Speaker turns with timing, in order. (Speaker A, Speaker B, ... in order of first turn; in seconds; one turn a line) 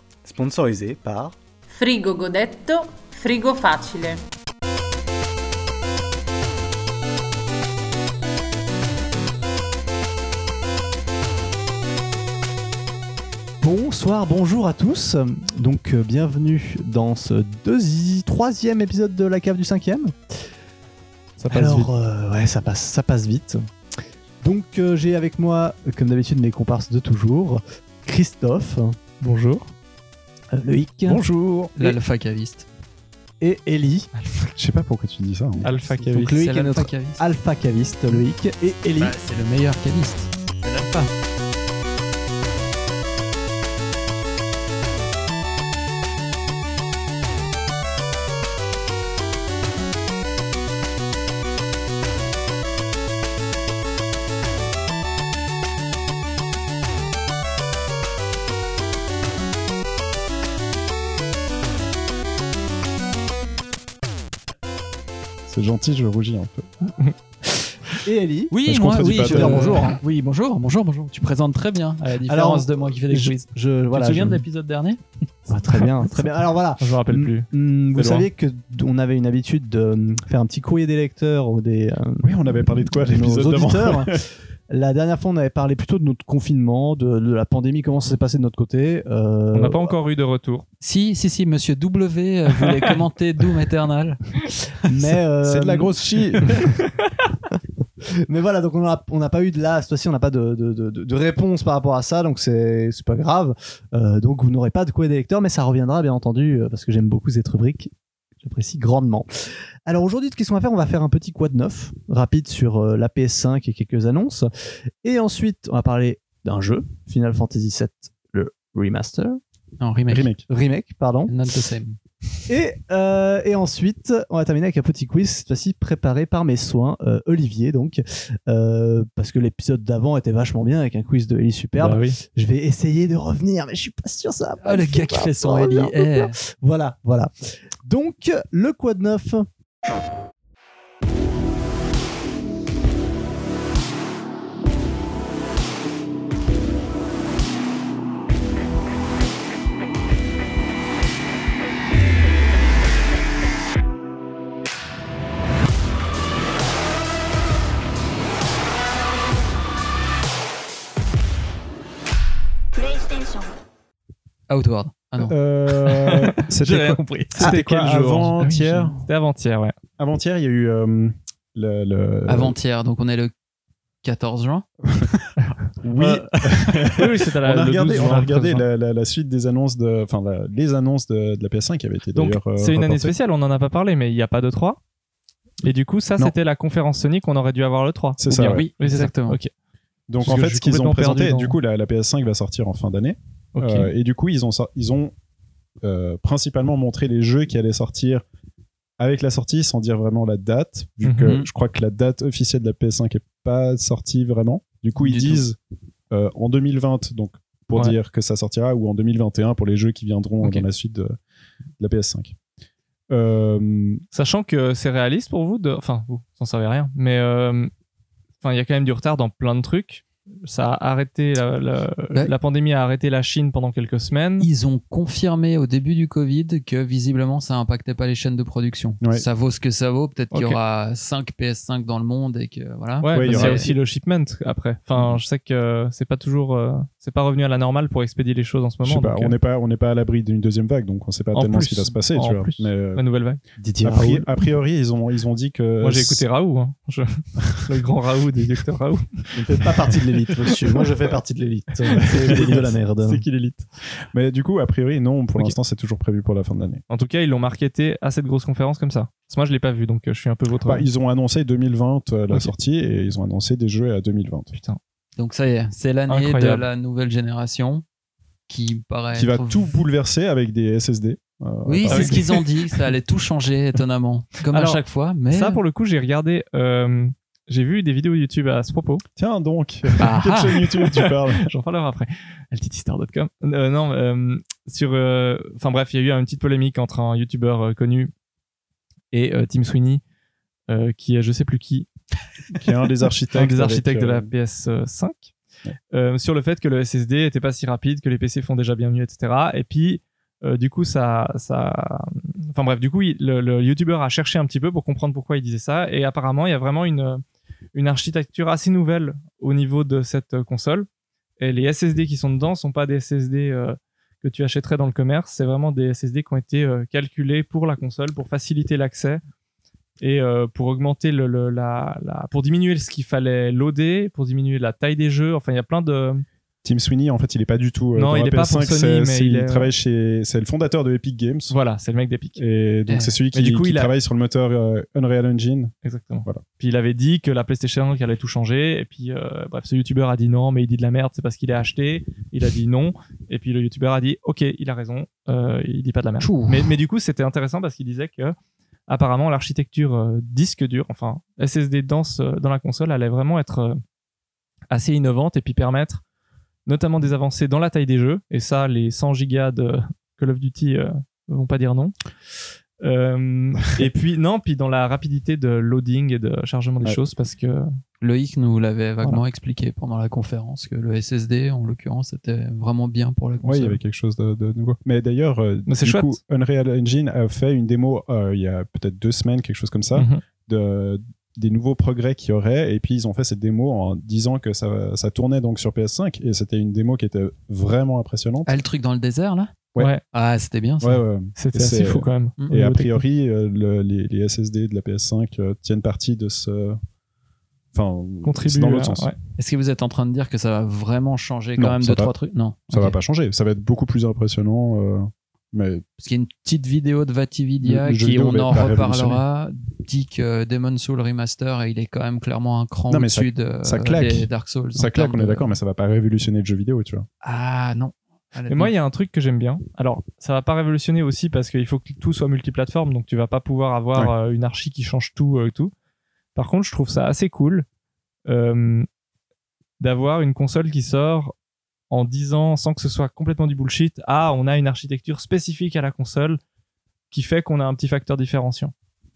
Speaker A: 0.2-1.4
Speaker B: 1.7-4.2
Speaker A: 13.6-20.1
Speaker C: 21.4-21.9
Speaker D: 21.5-21.9
Speaker A: 21.5-23.6
Speaker A: 24.4-29.0
Speaker D: 29.2-29.7
Speaker A: 30.5-31.2
Speaker C: 31.1-31.8
Speaker E: 31.8-32.7
Speaker A: 33.4-34.1
Speaker C: 34.6-35.7
Speaker D: 35.6-36.4
Speaker A: 35.9-39.1
Speaker E: 36.2-37.2
Speaker E: 39.0-41.1
Speaker C: 65.5-66.7
Speaker A: 68.0-69.9
Speaker E: 68.5-75.0
Speaker C: 68.7-69.9
Speaker A: 72.3-74.4
Speaker A: 75.5-82.3
Speaker D: 76.8-78.3
Speaker C: 82.2-84.2
Speaker A: 83.0-89.9
Speaker D: 89.5-90.7
Speaker E: 90.8-95.1
Speaker A: 94.9-96.0
Speaker C: 95.4-96.6
Speaker D: 96.5-96.8
Speaker A: 98.2-107.9
Speaker A: 108.4-109.3
Speaker A: 109.9-114.5
Speaker A: 115.0-119.4
Speaker E: 119.8-120.3
Speaker C: 120.1-120.5
Speaker A: 120.5-121.3
Speaker E: 121.3-122.0
Speaker A: 122.5-137.3
Speaker D: 131.8-132.2
Speaker E: 134.6-136.3
Speaker A: 137.8-139.5
Speaker E: 164.5-167.5
Speaker C: 165.2-169.0
Speaker D: 167.3-169.8
Speaker C: 170.0-172.6
Speaker E: 172.3-173.3
Speaker E: 174.0-177.0
Speaker C: 175.8-183.1
Speaker D: 176.9-178.7
Speaker D: 182.2-184.8
Speaker D: 185.6-189.5
Speaker C: 188.2-188.7
Speaker E: 188.3-189.4
Speaker C: 190.1-195.1
Speaker D: 190.2-191.6
Speaker D: 193.6-193.9
Speaker C: 195.8-198.2
Speaker C: 199.0-205.6
Speaker D: 201.0-201.4
Speaker E: 205.0-205.4
Speaker C: 206.1-211.2
Speaker C: 211.8-212.4
Speaker C: 213.1-214.0
Speaker D: 214.1-217.7
Speaker D: 218.4-224.5
Speaker E: 224.4-233.7
Speaker D: 230.3-230.6
Speaker D: 233.0-239.3
Speaker C: 233.1-233.7
Speaker C: 238.8-243.0
Speaker D: 241.3-243.4
Speaker A: 243.6-244.2
Speaker C: 243.8-246.2
Speaker D: 245.8-249.7
Speaker A: 249.3-253.2
Speaker D: 251.9-253.7
Speaker C: 254.1-256.8
Speaker D: 256.9-260.9
Speaker C: 260.7-264.5
Speaker D: 264.5-264.8
Speaker E: 265.2-267.8
Speaker D: 266.1-266.6
Speaker E: 268.5-269.8
Speaker C: 269.1-272.4
Speaker E: 271.7-275.6
Speaker D: 271.9-272.4
Speaker D: 274.5-279.0
Speaker C: 279.2-281.5
Speaker E: 280.0-280.6
Speaker D: 280.6-288.1
Speaker D: 289.1-290.0
Speaker D: 290.7-291.9
Speaker C: 292.5-294.3
Speaker D: 293.3-295.3
Speaker D: 295.9-307.2
Speaker D: 307.7-310.9
Speaker D: 311.4-319.2
Speaker D: 320.0-326.2
Speaker C: 326.6-331.6
Speaker D: 327.9-329.7
Speaker D: 331.5-332.4
Speaker C: 332.4-335.7
Speaker E: 332.9-333.1
Speaker D: 333.3-333.9
Speaker D: 335.8-348.4
Speaker A: 346.2-346.5
Speaker D: 348.9-353.8
Speaker D: 354.7-356.0
Speaker D: 356.7-362.0
Speaker D: 362.8-367.7
Speaker E: 368.0-373.8
Speaker C: 373.4-388.6
Speaker D: 375.7-376.1
Speaker D: 379.9-380.2
Speaker E: 388.5-391.0
Speaker D: 389.8-390.0
Speaker C: 390.8-396.8
Speaker D: 391.4-393.0
Speaker C: 397.7-399.1
Speaker D: 398.2-399.1
Speaker E: 399.4-402.9
Speaker C: 401.6-402.1
Speaker C: 402.7-405.9
Speaker E: 406.0-415.5
Speaker C: 407.6-409.2
Speaker C: 412.9-417.1
Speaker E: 417.2-418.7
Speaker D: 418.5-425.7
Speaker D: 426.4-427.7
Speaker D: 428.3-428.9
Speaker D: 429.8-431.3
Speaker D: 431.9-436.4
Speaker D: 437.1-438.7